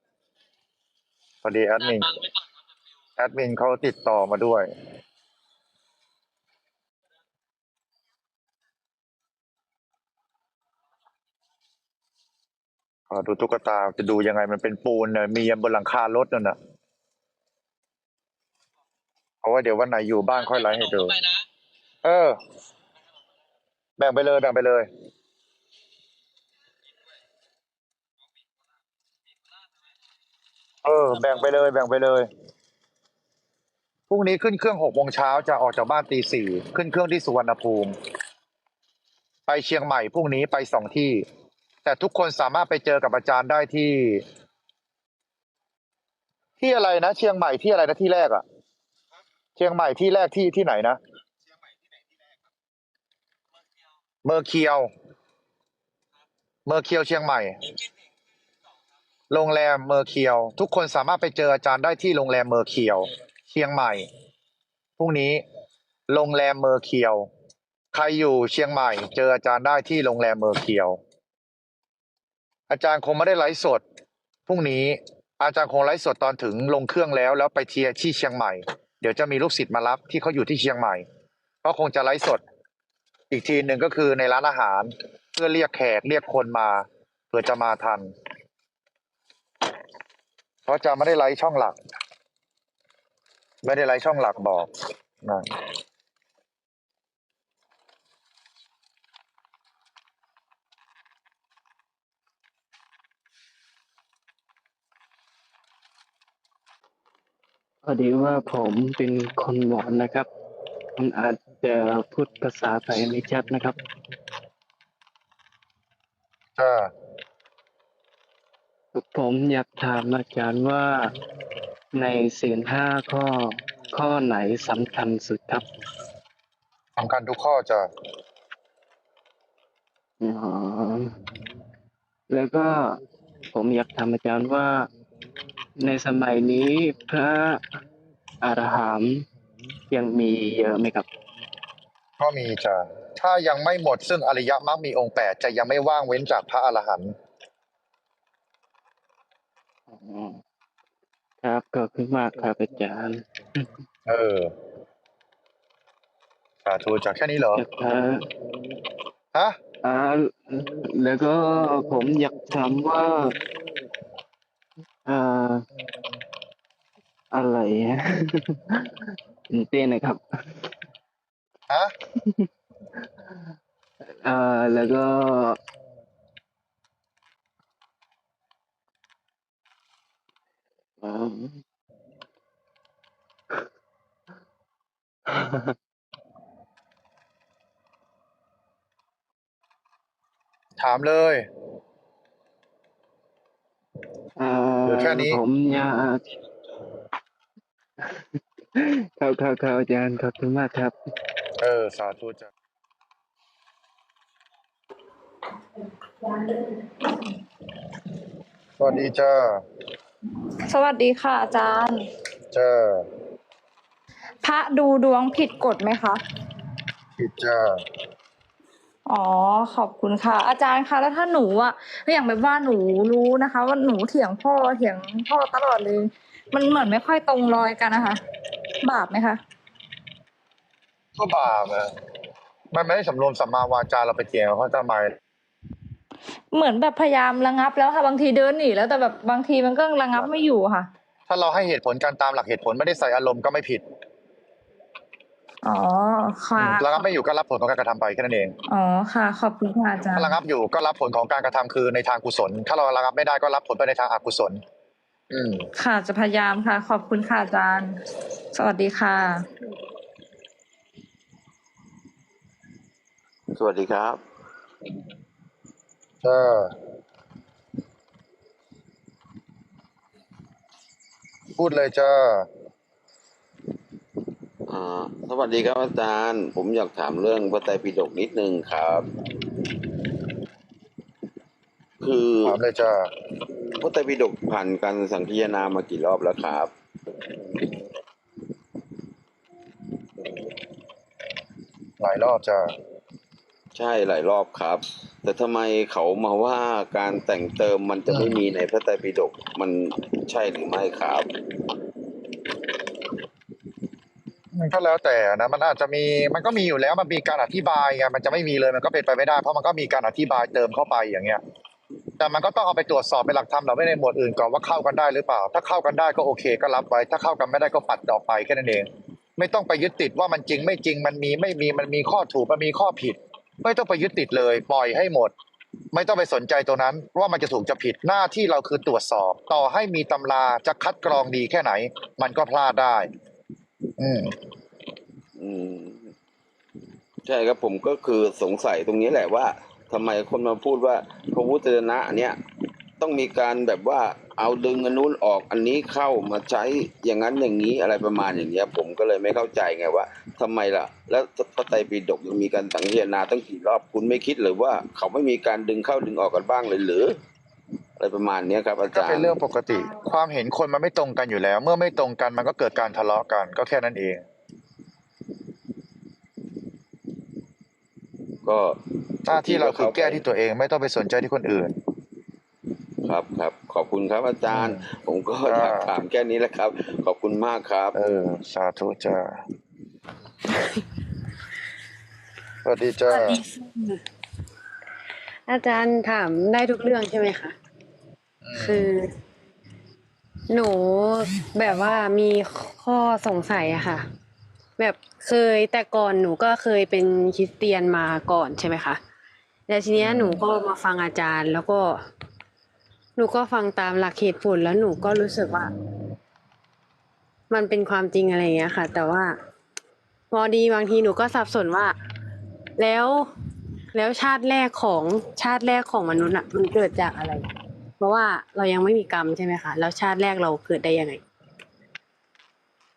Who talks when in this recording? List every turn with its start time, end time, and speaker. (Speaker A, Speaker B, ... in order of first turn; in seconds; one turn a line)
Speaker A: 1.4-2.1
Speaker A: 3.2-4.7
Speaker A: 13.1-16.6
Speaker A: 19.4-21.2
Speaker A: 22.0-22.4
Speaker A: 24.0-24.9
Speaker A: 30.8-32.3
Speaker A: 34.1-38.0
Speaker A: 39.5-41.2
Speaker A: 41.8-44.2
Speaker A: 46.6-48.4
Speaker A: 49.6-51.0
Speaker A: 54.2-54.9
Speaker A: 56.6-57.6
Speaker A: 59.3-64.1
Speaker A: 65.0-65.4
Speaker A: 66.1-67.3
Speaker A: 67.9-71.0
Speaker A: 72.7-73.8
Speaker A: 74.5-81.0
Speaker A: 81.6-82.4
Speaker A: 83.3-88.1
Speaker A: 90.7-91.8
Speaker A: 93.6-94.7
Speaker A: 95.2-95.6
Speaker B: 107.8-110.3
Speaker B: 111.0-113.8
Speaker A: 116.6-116.9
Speaker B: 118.9-121.1
Speaker B: 121.9-125.7
Speaker A: 127.0-127.9
Speaker B: 130.2-131.1
Speaker B: 132.3-133.0
Speaker B: 133.5-134.9
Speaker B: 135.8-137.6
Speaker B: 138.4-139.2
Speaker B: 139.9-141.1
Speaker A: 142.2-147.2
Speaker B: 149.9-150.4
Speaker B: 151.4-153.7
Speaker A: 154.1-154.5
Speaker A: 156.6-157.6
Speaker B: 157.5-158.2
Speaker B: 159.8-163.3
Speaker B: 165.1-165.7
Speaker B: 167.3-170.7
Speaker A: 171.7-171.9
Speaker B: 172.2-172.5
Speaker B: 173.0-173.4
Speaker B: 174.0-175.6
Speaker B: 181.0-181.6
Speaker B: 185.3-185.7
Speaker A: 190.8-191.5
Speaker B: 194.4-196.2
Speaker A: 194.9-195.4
Speaker B: 198.0-200.9
Speaker A: 201.6-202.5
Speaker C: 206.2-206.8
Speaker A: 208.8-209.6
Speaker C: 210.7-212.0
Speaker A: 212.5-213.1
Speaker C: 214.4-216.2
Speaker A: 217.2-217.8
Speaker C: 219.1-228.2
Speaker C: 228.8-229.4
Speaker A: 231.2-231.9
Speaker A: 232.7-235.2
Speaker C: 236.5-240.9
Speaker A: 241.3-243.8
Speaker C: 245.6-247.1
Speaker A: 246.6-248.5
Speaker C: 248.7-250.3
Speaker A: 250.2-254.6
Speaker A: 255.3-255.7
Speaker C: 255.7-258.0
Speaker C: 258.5-259.4
Speaker D: 263.5-264.2
Speaker A: 266.2-266.7
Speaker A: 271.6-272.5
Speaker D: 274.7-279.1
Speaker D: 282.0-282.6
Speaker A: 282.4-283.1
Speaker D: 283.8-286.7
Speaker A: 292.0-292.7
Speaker D: 293.7-301.3
Speaker A: 298.1-298.4
Speaker A: 304.5-311.4
Speaker A: 312.2-325.3
Speaker A: 325.9-333.1
Speaker A: 334.0-334.3
Speaker D: 335.4-336.1
Speaker D: 337.2-342.4
Speaker D: 343.0-357.1
Speaker D: 358.0-359.3
Speaker A: 358.9-364.2
Speaker D: 368.4-370.2
Speaker A: 369.3-371.8
Speaker D: 373.0-377.9
Speaker A: 374.5-374.8
Speaker A: 375.4-375.9
Speaker A: 377.9-379.4
Speaker A: 382.6-383.4
Speaker E: 383.1-384.0
Speaker E: 385.5-387.5
Speaker A: 388.4-388.9
Speaker E: 388.5-389.1
Speaker E: 390.5-394.0
Speaker E: 394.8-399.0
Speaker E: 399.7-402.0
Speaker A: 400.0-400.4
Speaker E: 403.2-405.7
Speaker E: 407.5-409.4
Speaker E: 410.3-411.9
Speaker E: 412.8-413.3
Speaker E: 413.9-421.2